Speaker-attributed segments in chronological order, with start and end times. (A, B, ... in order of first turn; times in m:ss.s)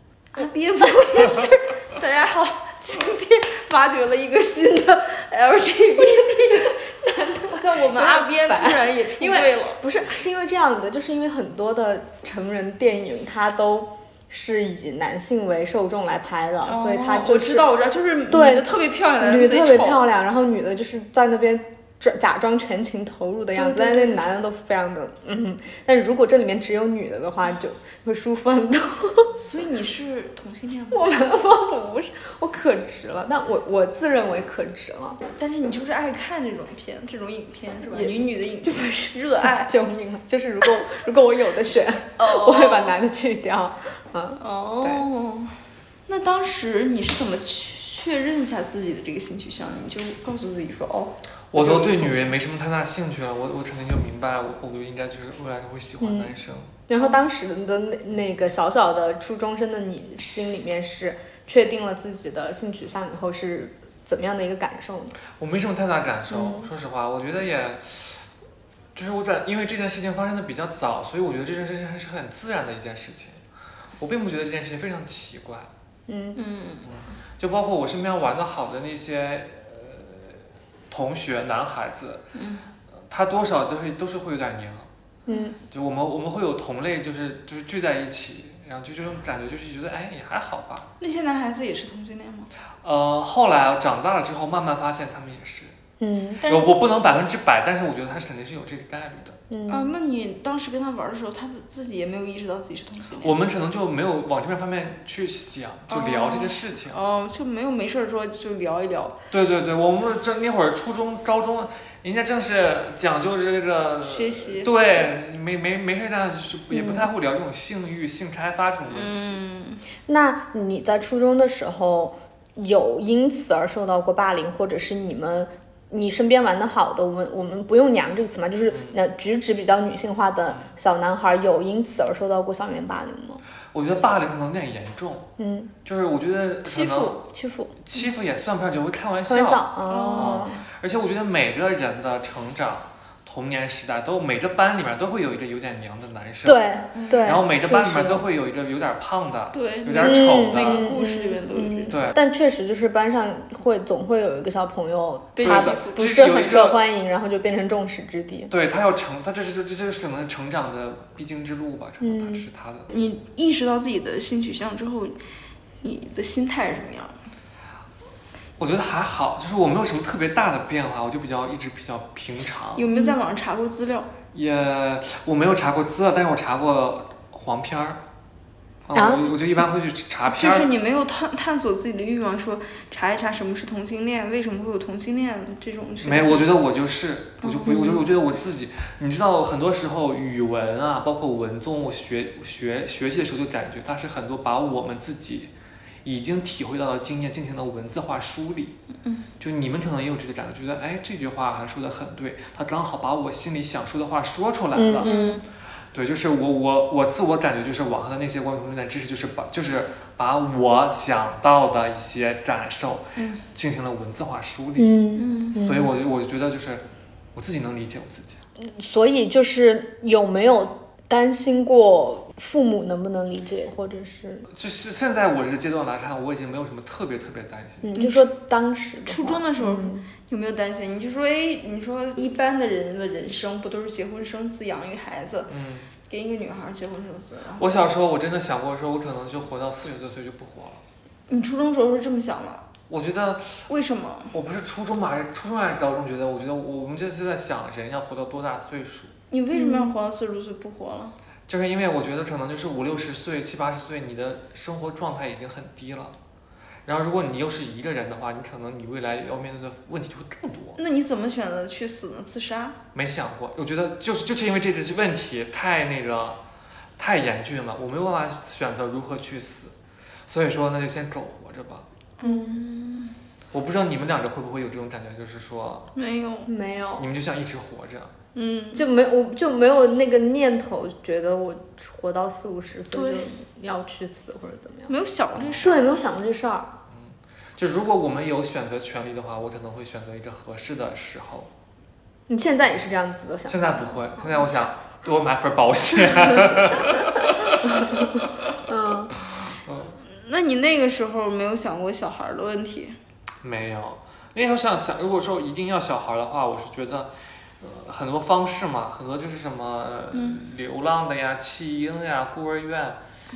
0:00.4-0:06.8 A
0:01.0-0:01.5 B
0:06.0-0:17.7 B
0:07.4-0:09.8 A
0:16.6-0:20.0 A
0:18.3-0:29.3 B
0:23.6-0:24.3 A
0:29.4-0:31.2 A
0:30.9-0:35.2 B
0:35.4-0:39.7 A
0:38.7-0:45.0 B
0:42.2-0:43.0 A
0:44.4-0:52.2 A
0:51.5-0:56.7 C
0:51.6-0:52.2 B
0:56.0-0:56.4 B
0:56.9-1:05.2 B
0:56.9-0:57.2 A
1:05.4-1:08.2 C
1:06.3-1:06.7 B
1:09.0-1:13.4 C
1:14.0-1:15.7 C
1:16.1-1:16.4 B
1:16.4-1:16.9 A
1:16.8-1:22.3 C
1:22.3-1:22.6 A
1:23.1-1:24.9 C
1:25.3-1:25.6 B
1:25.7-1:30.9 C
1:31.0-1:32.5 A
1:32.8-1:35.7 C
1:36.0-1:36.4 B
1:36.4-1:36.8 A
1:36.4-1:39.4 C
1:39.5-1:39.9 B
1:39.7-1:43.4 A
1:43.2-1:47.0 C
1:45.9-1:49.2 A
1:49.3-1:59.3 C
1:54.0-1:54.8 A
1:56.7-1:57.1 B
1:58.9-1:59.8 A
2:00.1-2:13.4 B
2:08.7-2:09.0 C
2:13.7-2:15.3 C
2:15.4-2:15.7 B
2:15.8-2:17.2 C
2:16.7-2:17.8 B
2:17.8-2:26.6 C
2:19.3-2:20.6 B
2:19.9-2:20.5 A
2:26.4-2:28.2 B
2:26.9-2:27.3 A
2:27.2-2:30.9 C
2:29.5-2:32.1 A
2:30.0-2:38.5 B
2:31.9-2:32.2 C
2:35.4-2:36.2 A
2:35.4-2:36.8 C
2:38.5-2:42.9 C
2:42.0-2:42.5 B
2:42.9-2:45.2 A
2:45.8-2:47.2 A
2:48.6-2:52.9 C
2:52.8-2:54.1 A
2:54.3-2:58.0 C
2:58.9-3:00.7 C
2:58.9-2:59.3 B
3:00.2-3:06.6 A
3:06.0-3:15.5 C
3:07.4-3:07.9 A
3:07.7-3:08.0 B
3:16.0-3:18.8 C
3:19.0-3:19.3 A
3:19.4-3:25.1 C
3:24.8-3:25.4 B
3:25.0-3:25.4 A
3:25.9-3:35.0 C
3:33.2-3:33.4 A
3:34.8-3:35.9 B
3:35.2-3:35.6 A
3:35.6-3:36.8 C
3:37.4-3:38.4 C
3:38.6-3:44.5 B
3:44.5-3:47.9 C
3:47.8-3:50.1 B
3:48.0-3:48.3 A
3:49.0-3:55.5 A
3:55.5-3:55.9 C
3:56.1-3:57.9 A
3:57.6-4:00.8 C
4:01.3-4:02.6 A
4:02.9-4:03.7 C
4:03.7-4:04.4 A
4:04.3-4:09.1 C
4:09.3-4:11.2 A
4:09.6-4:09.9 B
4:11.5-4:16.2 C
4:16.9-4:20.8 C
4:20.8-4:22.8 A
4:22.9-4:26.4 C
4:27.0-4:29.7 C
4:30.3-4:31.9 C
4:32.2-4:33.2 A
4:32.2-4:32.6 B
4:33.5-4:35.9 C
4:36.0-4:36.5 A
4:36.5-4:37.1 B
4:37.0-4:38.2 C
4:38.4-4:38.9 A
4:38.7-4:44.9 B
4:42.9-4:43.3 A
4:44.9-4:45.8 A
4:45.4-4:45.8 C
4:45.6-4:46.7 B
4:46.9-4:51.5 C
4:52.3-4:54.7 B
4:53.5-4:58.5 C
4:57.5-4:59.2 B
4:59.2-5:00.0 C
5:00.0-5:03.0 A
5:03.4-5:13.0 C
5:10.1-5:10.4 A